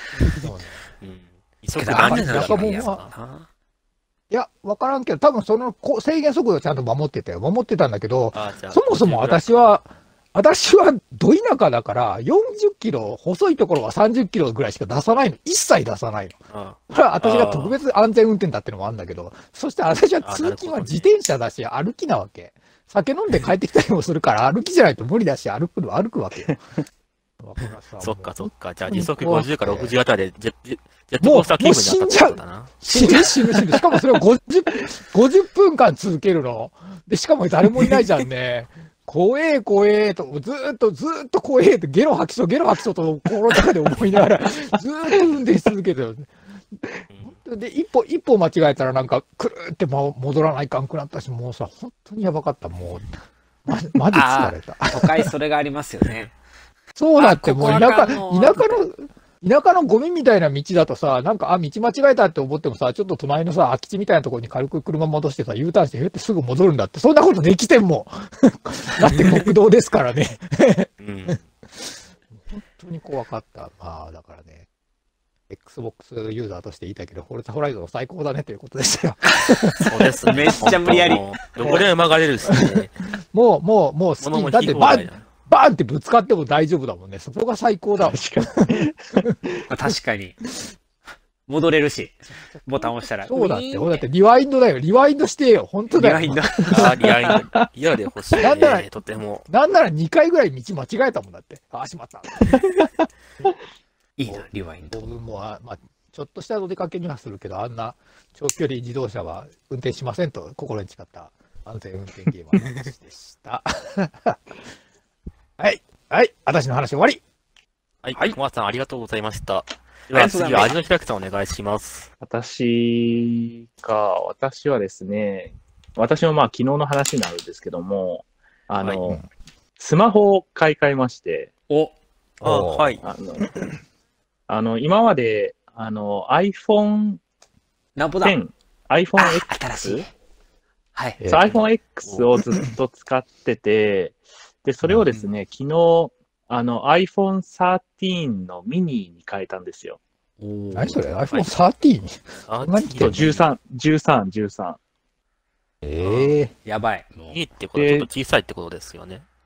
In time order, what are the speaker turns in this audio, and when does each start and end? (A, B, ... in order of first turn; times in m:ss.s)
0:00.3-0:00.8 A
0:01.0-0:03.1 B
0:01.8-0:03.4 C
0:01.9-0:03.1 A
0:04.3-0:16.4 A
0:08.3-0:09.7 B
0:16.5-0:17.7 B
0:16.9-0:26.6 A
0:20.2-0:21.1 B
0:27.4-0:30.0 A
0:28.0-0:32.8 B
0:31.2-0:53.1 A
0:32.8-0:33.7 C
0:53.6-0:55.3 A
0:54.1-0:56.3 C
0:56.9-1:14.6 A
0:57.2-0:58.9 C
1:11.0-1:11.4 B
1:15.5-1:21.9 A
1:19.7-1:21.2 C
1:19.9-1:22.9 B
1:22.4-1:29.4 A
1:24.2-1:25.2 B
1:28.0-1:29.6 D
1:29.7-1:30.4 C
1:31.5-1:34.0 C
1:33.3-1:36.9 A
1:35.9-1:37.0 C
1:36.7-1:39.4 B
1:38.4-1:38.9 A
1:39.5-1:42.6 A
1:44.2-1:45.1 C
1:44.3-1:54.6 A
1:55.6-1:57.2 A
1:58.0-2:02.1 B
2:00.1-2:00.7 C
2:02.2-2:09.2 D
2:09.8-2:11.5 D
2:11.7-2:11.9 C
2:12.4-2:13.0 A
2:12.4-2:13.0 B
2:13.0-2:13.5 D
2:14.5-2:17.2 D
2:18.0-2:18.4 C
2:18.2-2:20.0 D
2:19.2-2:20.1 C
2:20.9-2:21.2 C
2:21.2-2:21.6 A
2:21.3-2:30.0 D
2:30.4-2:31.0 C
2:30.7-2:33.3 A
2:32.5-2:33.4 B
2:33.0-2:34.8 D
2:35.8-2:36.5 A
2:36.6-2:37.4 C
2:37.3-2:39.2 B
2:37.8-2:38.1 D